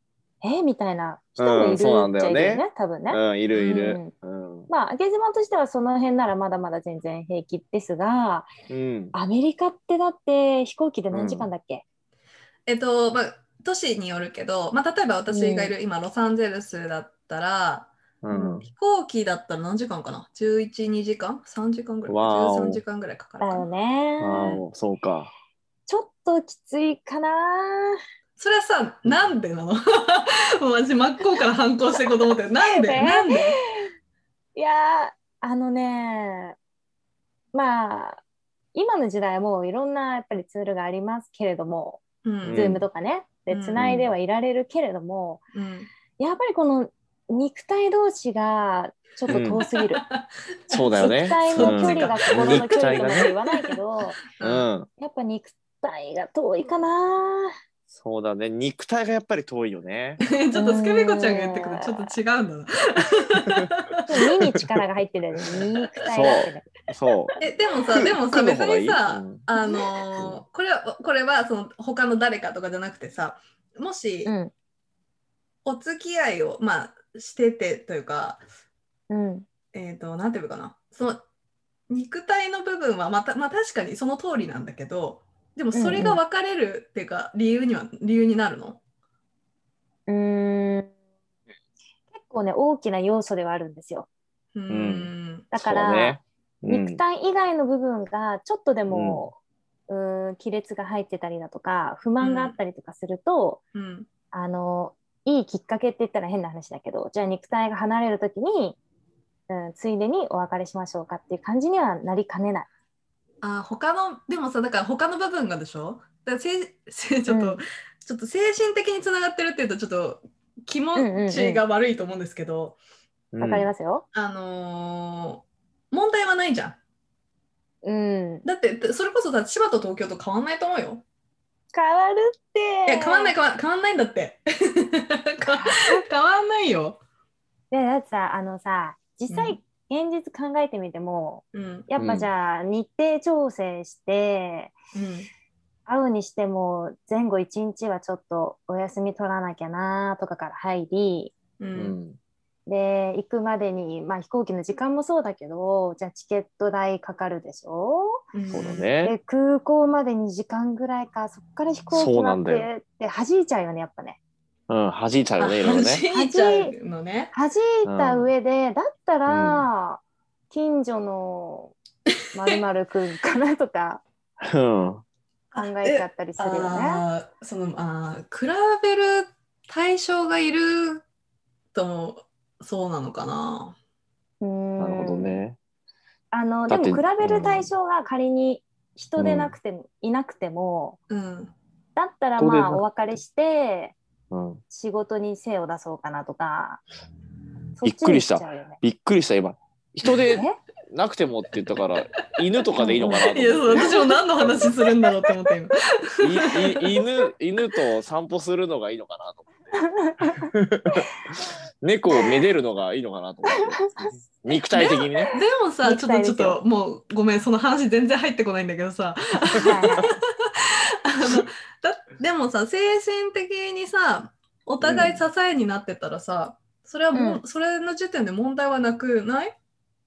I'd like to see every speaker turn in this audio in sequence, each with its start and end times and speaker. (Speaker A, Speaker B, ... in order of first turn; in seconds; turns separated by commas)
Speaker A: 0.4-4.1, Speaker B: 1.4-4.7, Speaker C: 3.5-4.0, Speaker A: 4.7-8.5, Speaker B: 8.7-9.2, Speaker A: 9.1-11.8, Speaker B: 11.1-11.5, Speaker C: 12.7-17.9, Speaker A: 15.3-15.7, Speaker B: 18.2-18.7, Speaker A: 18.3-18.6, Speaker C: 18.7-23.7, Speaker B: 22.1-22.8, Speaker A: 23.4-24.5, Speaker B: 24.2-25.3, Speaker C: 24.3-24.6, Speaker A: 25.9-28.0, Speaker C: 28.4-33.6, Speaker A: 32.6-33.4, Speaker A: 34.5-36.6, Speaker A: 37.5-38.2, Speaker A: 38.7-45.4, Speaker C: 42.2-42.7, Speaker B: 42.4-42.9, Speaker C: 43.5-43.8, Speaker B: 43.8-44.1, Speaker C: 45.5-45.9, Speaker A: 46.2-50.0, Speaker B: 49.3-49.6, Speaker C: 49.3-53.6, Speaker B: 50.7-53.3, Speaker A: 51.0-54.2, Speaker C: 54.4-54.7, Speaker B: 54.4-54.9, Speaker A: 55.0-57.5, Speaker B: 57.9-60.2, Speaker C: 60.2-63.9, Speaker A: 60.5-62.1, Speaker A: 64.1-66.7, Speaker B: 66.1-67.4, Speaker C: 67.4-74.3, Speaker B: 68.0-69.5, Speaker B: 70.2-70.4, Speaker A: 74.3-74.5, Speaker C: 75.7-78.4, Speaker A: 79.1-79.5, Speaker C: 79.7-81.2, Speaker C: 81.9-88.8, Speaker A: 85.7-86.2, Speaker A: 90.1-90.9, Speaker A: 92.1-94.1, Speaker C: 94.5-95.5, Speaker B: 94.7-97.0, Speaker A: 95.5-103.6, Speaker B: 98.9-99.2, Speaker C: 102.2-102.6, Speaker C: 103.7-104.1, Speaker A: 104.3-108.8, Speaker A: 109.5-112.7, Speaker C: 113.4-122.8, Speaker A: 117.3-117.6, Speaker A: 121.0-121.6, Speaker B: 123.3-123.7, Speaker A: 123.4-124.1, Speaker C: 124.1-126.8, Speaker A: 127.8-128.4, Speaker C: 128.4-131.0, Speaker A: 131.7-133.3, Speaker C: 132.9-137.0, Speaker A: 135.5-136.0, Speaker A: 137.7-144.8, Speaker C: 139.3-139.6, Speaker C: 141.5-141.9, Speaker B: 142.0-142.3, Speaker C: 144.9-145.3, Speaker A: 145.9-151.3, Speaker C: 151.6-152.0, Speaker B: 151.8-152.2, Speaker A: 152.7-158.2, Speaker C: 158.3-158.9, Speaker B: 158.5-159.2, Speaker A: 159.0-164.2, Speaker B: 161.9-162.7, Speaker B: 164.7-166.0, Speaker C: 165.4-167.3, Speaker A: 166.1-166.7, Speaker A: 167.3-171.8, Speaker B: 167.8-168.3, Speaker B: 169.3-169.7, Speaker A: 172.3-174.0, Speaker B: 174.4-175.0, Speaker C: 175.5-181.0, Speaker A: 175.6-177.0, Speaker C: 181.7-183.8, Speaker A: 184.4-185.4, Speaker B: 184.8-185.6, Speaker A: 186.3-191.0, Speaker B: 186.7-187.7, Speaker B: 189.2-189.6, Speaker C: 191.1-191.6, Speaker A: 192.0-194.0, Speaker B: 192.4-193.2, Speaker B: 194.3-194.6, Speaker A: 194.7-196.8, Speaker A: 197.8-198.8, Speaker B: 197.8-204.7, Speaker A: 200.3-200.6, Speaker A: 202.8-204.0, Speaker C: 203.0-206.9, Speaker B: 206.2-209.8, Speaker A: 209.7-210.5, Speaker B: 210.4-211.1, Speaker B: 211.8-215.3, Speaker C: 214.7-220.1, Speaker A: 215.8-216.6, Speaker A: 219.6-220.0, Speaker C: 221.1-229.6, Speaker B: 224.8-225.2, Speaker A: 227.1-227.4